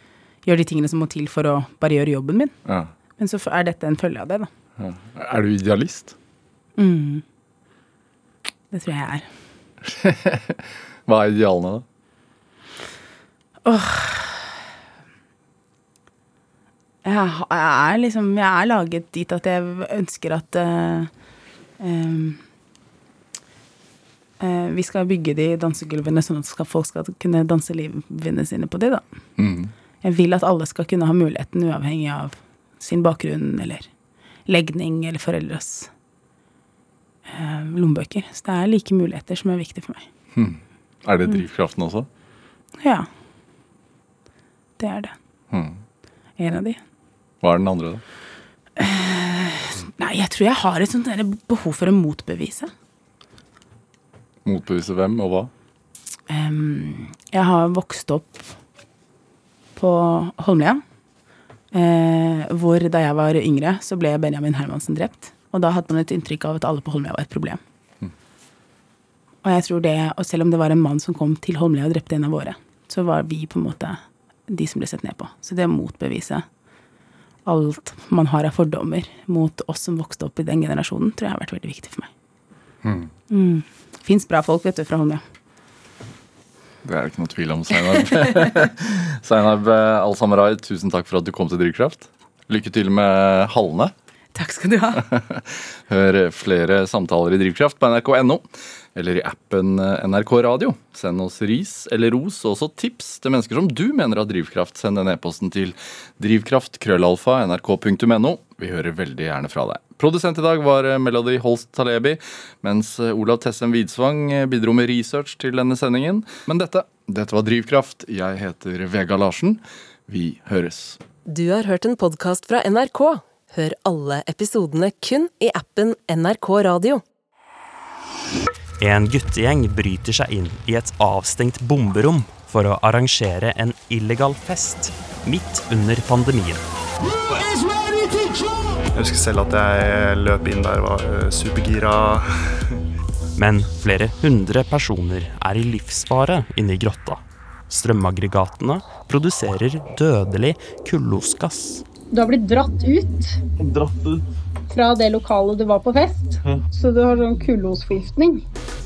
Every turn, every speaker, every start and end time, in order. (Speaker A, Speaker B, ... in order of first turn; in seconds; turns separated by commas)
Speaker A: 0.4-2.5, Speaker B: 2.6-2.9, Speaker A: 3.2-4.5, Speaker B: 4.8-6.1, Speaker A: 6.8-7.2, Speaker A: 8.7-9.3, Speaker B: 9.8-11.8, Speaker A: 13.6-14.5, Speaker A: 17.0-21.1, Speaker A: 21.8-22.4, Speaker A: 24.4-29.0, Speaker B: 29.4-29.7, Speaker A: 30.0-33.9, Speaker A: 34.5-35.9, Speaker A: 37.3-40.0, Speaker B: 40.3-42.1, Speaker A: 42.8-43.1, Speaker A: 44.8-45.1, Speaker B: 45.5-45.8, Speaker A: 46.4-46.8, Speaker B: 47.4-48.0, Speaker A: 48.8-52.7, Speaker B: 54.4-55.5, Speaker A: 56.3-58.5, Speaker A: 59.8-60.8, Speaker A: 61.7-67.6, Speaker A: 69.4-76.4, Speaker A: 77.5-82.1, Speaker B: 82.8-83.1, Speaker A: 83.3-85.2, Speaker B: 86.8-93.9, Speaker A: 94.3-95.0, Speaker B: 95.0-121.0, Speaker C: 121.2-127.0, Speaker D: 128.8-136.6, Speaker E: 138.9-142.7, Speaker D: 143.3-151.8, Speaker F: 152.1-153.4, Speaker F: 154.7-158.4